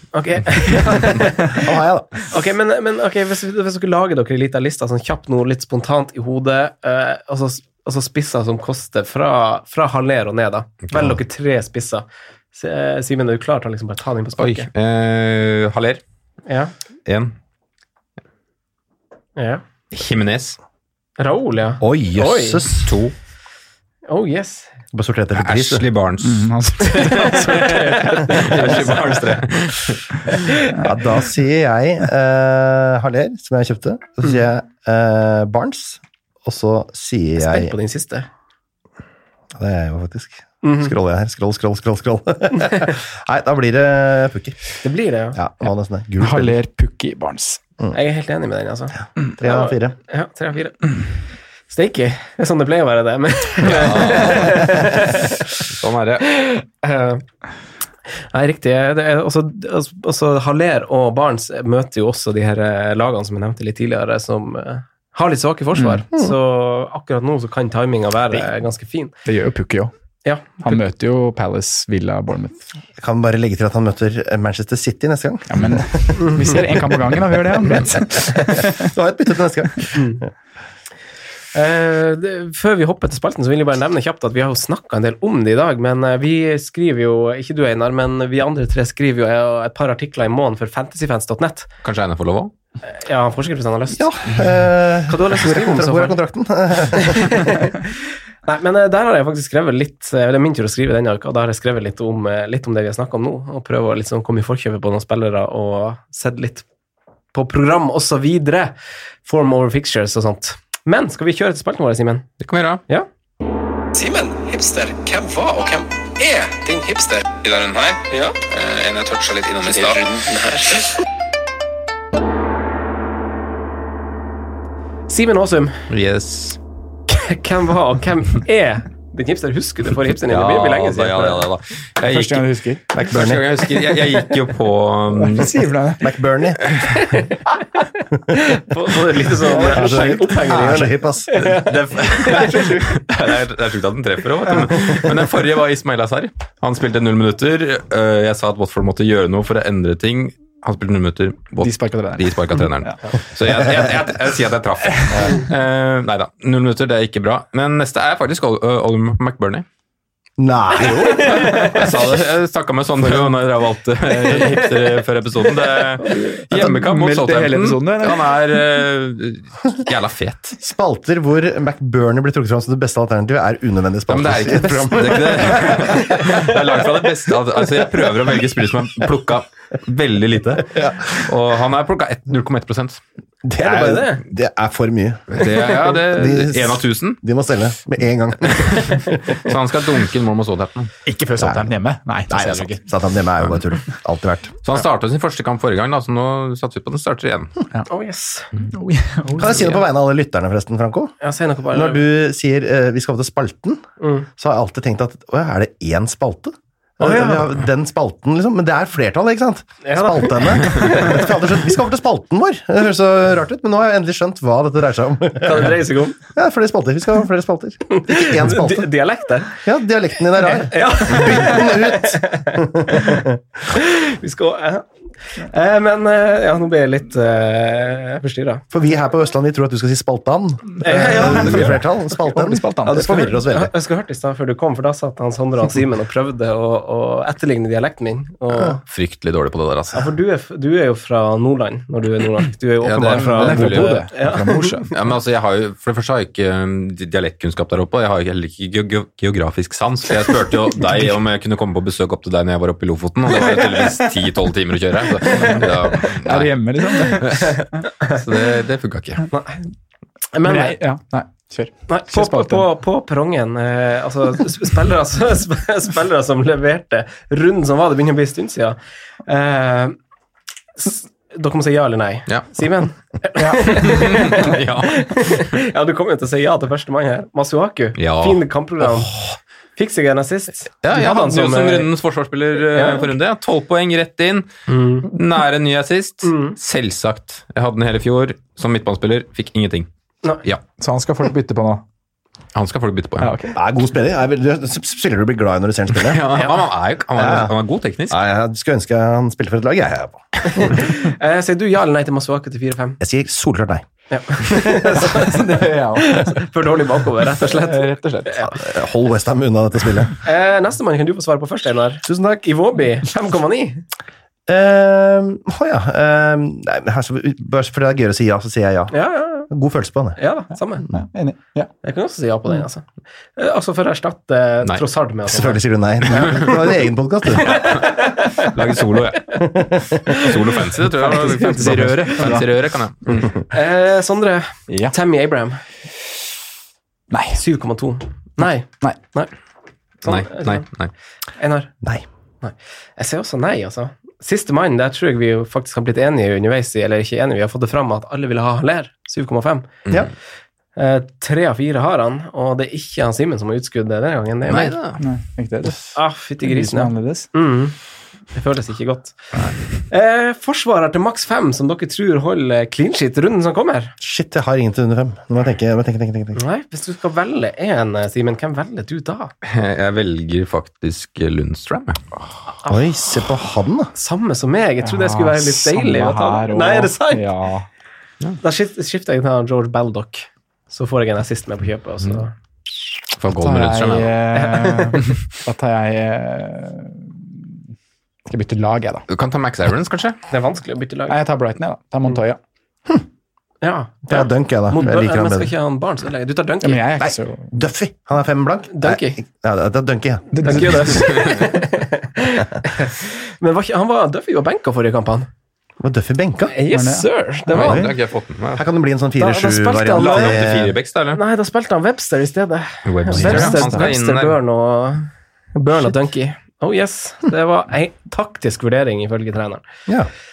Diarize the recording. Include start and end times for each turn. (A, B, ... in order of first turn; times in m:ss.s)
0:00.1-0:01.7 A
0:00.7-0:02.3 B
0:02.3-0:14.7 A
0:14.4-0:16.0 C
0:16.5-0:16.7 A
0:17.1-0:17.3 C
0:19.4-0:19.6 A
0:19.9-0:20.6 C
0:21.2-0:22.6 A
0:21.8-0:22.9 B
0:22.8-0:23.1 C
0:24.1-0:24.7 A
0:24.9-0:25.9 B
0:25.4-0:26.5 C
0:26.2-0:29.4 D
0:26.8-0:29.2 A
0:28.3-0:30.1 C
0:30.8-0:37.7 B
0:37.4-0:38.3 A
0:39.6-0:44.6 B
0:40.6-0:40.9 A
0:44.8-0:45.4 A
0:45.3-0:46.6 B
0:46.2-0:47.6 D
0:47.9-0:50.9 A
0:49.3-0:50.0 B
0:51.7-0:55.4 A
0:53.6-0:54.9 C
0:55.6-0:56.3 C
0:56.2-0:57.2 A
0:58.2-1:09.1 A
1:05.8-1:06.0 D
1:09.2-1:09.9 D
1:10.2-1:10.8 A
1:10.6-1:12.6 D
1:13.0-1:17.0 B
1:15.5-1:18.9 D
1:16.2-1:16.6 A
1:17.6-1:20.3 B
1:19.9-1:20.2 A
1:21.5-1:31.7 A
1:31.8-1:32.5 C
1:32.8-1:34.0 A
1:33.9-1:37.5 B
1:35.1-1:36.2 A
1:36.9-1:37.9 A
1:38.4-1:46.6 A
1:47.3-1:52.3 A
1:52.4-1:52.8 C
1:54.0-2:01.0 E
1:58.1-1:58.4 A
2:05.1-2:05.8 A
2:05.9-2:06.6 C
2:07.1-2:11.4 A
2:10.3-2:15.6 C
2:12.1-2:12.8 D
2:12.9-2:13.6 B
2:15.1-2:16.1 D
2:16.0-2:16.8 B
2:16.9-2:17.8 A
2:18.3-2:22.8 A
2:19.4-2:20.6 D
2:19.6-2:21.6 B
2:21.6-2:39.7 C
2:31.6-2:32.9 D
2:34.9-2:35.2 D
2:35.1-2:35.4 B
2:40.4-2:41.6 B
2:40.8-2:41.9 D
2:40.8-2:42.0 A
2:41.5-2:50.6 C
2:44.1-2:44.7 D
2:46.0-2:48.6 D
2:50.6-2:56.9 B
2:54.1-3:03.0 C
3:00.7-3:01.2 B
3:03.4-3:09.5 B
3:03.6-3:04.2 A
3:05.3-3:07.2 C
3:09.3-3:11.0 C
3:11.1-3:12.8 D
3:11.4-3:11.8 B
3:12.3-3:14.7 B
3:14.6-3:17.5 C
3:17.9-3:18.5 A
3:18.7-3:19.8 D
3:19.4-3:21.2 B
3:21.2-3:22.0 A
3:21.7-3:23.8 B
3:24.0-3:24.3 A
3:24.4-3:35.8 B
3:27.0-3:27.5 A
3:29.8-3:31.2 A
3:35.4-3:36.2 A
3:36.3-3:38.9 B
3:37.9-3:39.6 A
3:39.5-3:43.4 B
3:40.4-3:48.6 A
3:48.7-3:53.7 B
3:50.8-3:51.6 A
3:50.9-3:53.3 D
3:51.3-3:51.8 C
3:52.9-3:58.8 A
3:58.9-4:00.1 C
3:59.9-4:04.8 A
4:02.8-4:04.1 C
4:03.0-4:05.0 D
4:04.9-4:19.3 C
4:15.3-4:17.6 D
4:19.3-4:19.6 A
4:20.3-4:20.8 A
4:20.4-4:22.7 D
4:21.9-4:30.0 A
4:30.8-4:39.2 A
4:33.4-4:33.9 D
4:33.7-4:35.6 C
4:38.0-4:38.4 C
4:39.8-4:41.9 A
4:40.8-4:44.5 C
4:42.7-4:43.1 A
4:44.7-4:45.1 A
4:45.0-4:49.9 C
4:46.2-4:46.6 A
4:50.8-4:51.8 D
4:52.6-4:53.4 C
4:53.2-4:53.6 D
4:53.5-4:56.2 B
4:56.0-4:58.2 C
4:56.3-4:56.6 A
4:57.2-4:57.5 B
4:58.1-5:00.8 B
5:00.5-5:03.0 A
5:03.0-5:04.8 B
5:04.1-5:07.9 A
5:04.9-5:06.4 D
5:07.4-5:08.5 D
5:08.4-5:10.2 B
5:10.2-5:13.8 A
5:12.0-5:12.4 B
5:14.5-5:19.0 B
5:18.9-5:19.5 A
5:19.5-5:20.2 B
5:20.2-5:20.9 A
5:20.9-5:21.7 D
5:21.8-5:26.6 A
5:25.3-5:27.8 B
5:26.2-5:26.5 C
5:27.4-5:28.5 A
5:27.5-5:29.5 C
5:29.3-5:30.0 B
5:30.1-5:33.3 C
5:30.9-5:32.5 D
5:33.3-5:35.6 A
5:34.7-5:34.9 D
5:37.1-5:37.4 D
5:37.4-5:39.3 A
5:40.0-5:40.7 A
5:40.0-5:40.9 C
5:41.4-5:41.7 A
5:42.4-5:49.8 A
5:50.8-5:54.8 A
5:54.5-5:55.0 C
5:55.0-5:57.3 D
5:55.9-5:57.8 A
5:58.3-5:59.2 A
5:59.9-6:03.9 A
6:04.0-6:06.4 B
6:06.4-6:09.3 A
6:09.4-6:12.0 C
6:12.7-6:13.9 B
6:14.0-6:17.4 A
6:14.8-6:17.7 D
6:18.4-6:22.3 A
6:23.2-6:24.2 C
6:23.3-6:27.5 D
6:24.3-6:25.1 A
6:28.3-6:29.1 D
6:29.1-6:30.2 C
6:30.3-6:31.2 A
6:31.1-6:32.4 D
6:33.6-6:36.8 A
6:34.1-6:35.5 B
6:36.6-6:37.6 D
6:37.0-6:40.8 B
6:38.7-6:39.2 A
6:40.3-6:41.4 D
6:40.4-6:45.3 A
6:45.8-6:46.5 B
6:46.4-6:47.8 A
6:46.7-6:47.1 D
6:47.5-6:48.7 C
6:47.5-6:48.0 B
6:48.5-6:50.8 B
6:49.2-6:50.4 A
6:49.9-6:51.2 C
6:51.1-6:59.6 A
6:52.9-6:54.4 C
6:53.1-6:53.8 B